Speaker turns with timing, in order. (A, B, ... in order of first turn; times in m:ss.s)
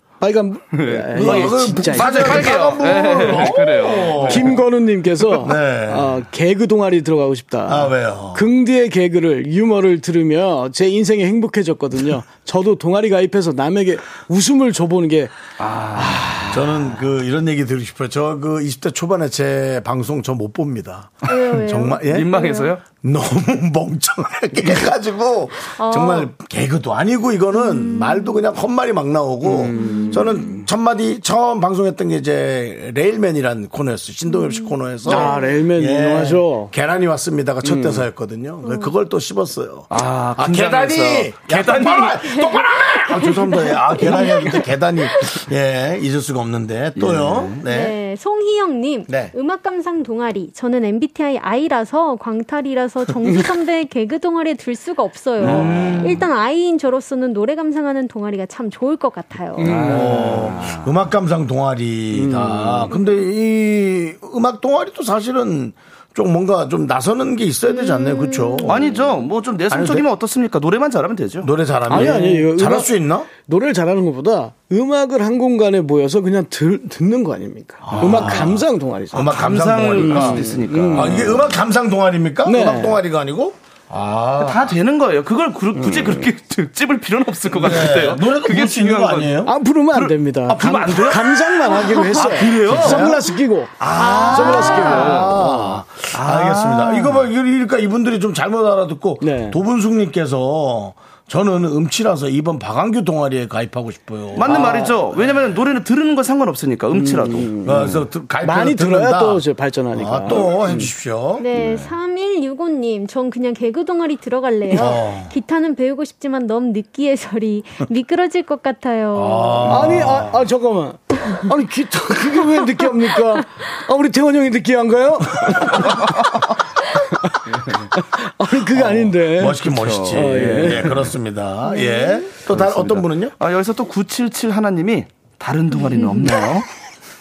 0:00.2-0:02.7 A
0:00.7-0:04.6 B
0:01.1-0:04.6 C
0:04.2-0:16.8 A
0:05.3-0:06.2 C
0:07.7-0:08.5 C
0:15.6-0:16.6 B
0:16.5-0:22.5 C
0:21.3-0:22.7 D
0:22.0-0:22.8 B
0:23.0-0:48.0 C
0:25.7-0:26.3 D
0:27.5-0:28.4 D
0:29.4-0:30.6 A
0:29.8-0:30.3 D
0:34.3-0:35.5 D
0:35.0-0:36.7 A
0:37.6-0:38.0 A
0:38.6-0:38.9 D
0:39.9-0:42.3 B
0:42.2-0:45.4 D
0:47.0-0:47.6 B
0:47.6-0:59.8 D
0:49.1-0:49.3 C
0:55.4-0:56.3 B
0:55.5-0:56.1 C
0:59.6-1:00.4 A
0:59.6-1:00.9 B
0:59.6-1:09.0 C
1:02.1-1:02.9 A
1:07.6-1:08.9 D
1:08.6-1:12.2 B
1:09.7-1:10.1 C
1:11.4-1:13.3 C
1:11.9-1:21.4 A
1:17.8-1:24.7 C
1:18.0-1:18.4 B
1:19.1-1:21.5 B
1:22.4-1:23.0 A
1:24.4-1:33.1 B
1:25.7-1:26.3 A
1:27.5-1:29.5 C
1:29.4-1:35.8 A
1:30.5-1:33.3 C
1:33.8-1:35.3 B
1:33.9-1:35.2 D
1:34.0-1:44.9 C
1:36.1-1:37.3 B
1:39.2-1:39.6 A
1:44.3-1:48.0 B
1:44.4-1:44.9 A
1:46.9-1:50.8 A
1:47.6-1:51.5 C
1:51.4-1:59.9 D
1:51.5-1:51.9 B
1:54.7-1:55.3 C
1:59.1-2:00.4 C
1:59.7-2:06.1 A
2:05.6-2:06.5 B
2:07.0-2:11.0 A
2:08.7-2:13.3 C
2:09.6-2:11.1 B
2:11.7-2:12.3 D
2:12.4-2:16.7 B
2:15.7-2:16.4 D